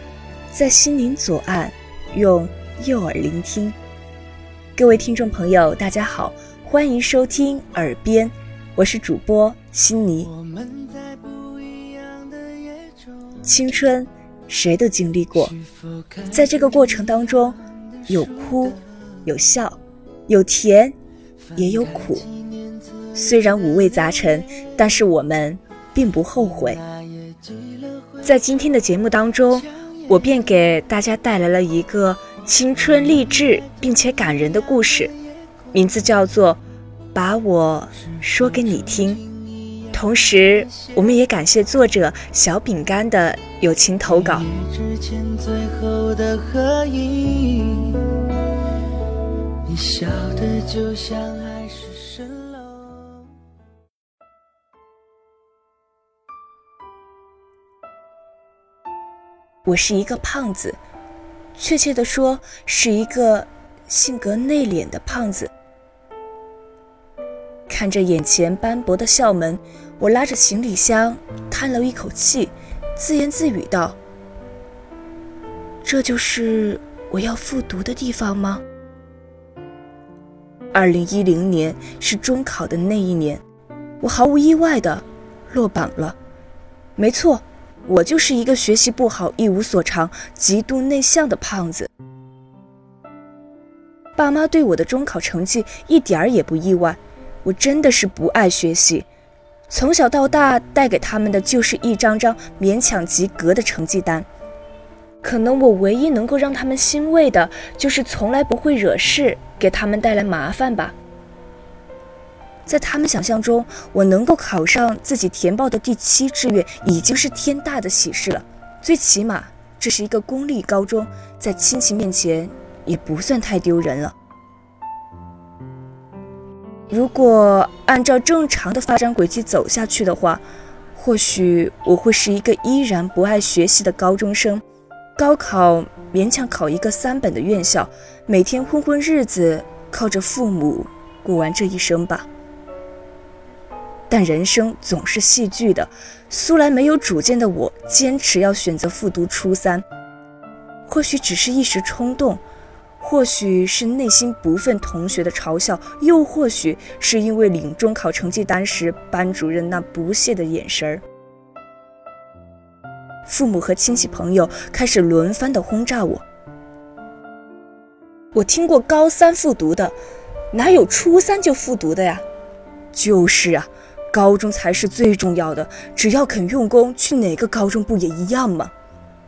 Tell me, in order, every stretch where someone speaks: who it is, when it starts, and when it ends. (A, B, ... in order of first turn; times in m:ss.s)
0:00.5-0:03.8 A
0:04.8-0:10.3 A
0:13.4-0:15.6 A
0:16.3-0:17.6 A
0:18.1-0:21.0 A
0:21.6-0:22.3 A
0:23.1-0:26.8 A
0:28.2-0:35.1 A
0:35.7-0:36.6 A
0:37.1-0:39.2 A
0:39.9-0:44.5 A
0:59.6-1:00.8 A
1:01.6-1:05.5 A
1:07.7-1:14.0 A
1:15.8-1:18.6 A
1:20.7-1:23.4 A
1:24.0-1:26.2 A
1:27.0-1:31.9 A
1:34.2-1:39.1 A
1:39.7-1:44.3 A
1:45.2-1:51.0 A
1:52.7-2:04.2 A
2:06.9-2:10.4 A
2:11.0-2:14.6 A
2:15.2-2:22.3 A
2:24.1-2:29.8 A
2:30.9-2:32.4 A
2:33.0-2:41.0 A
2:43.3-2:46.2 A
2:48.4-2:50.0 A
2:50.5-2:52.2 A
2:52.9-2:58.7 A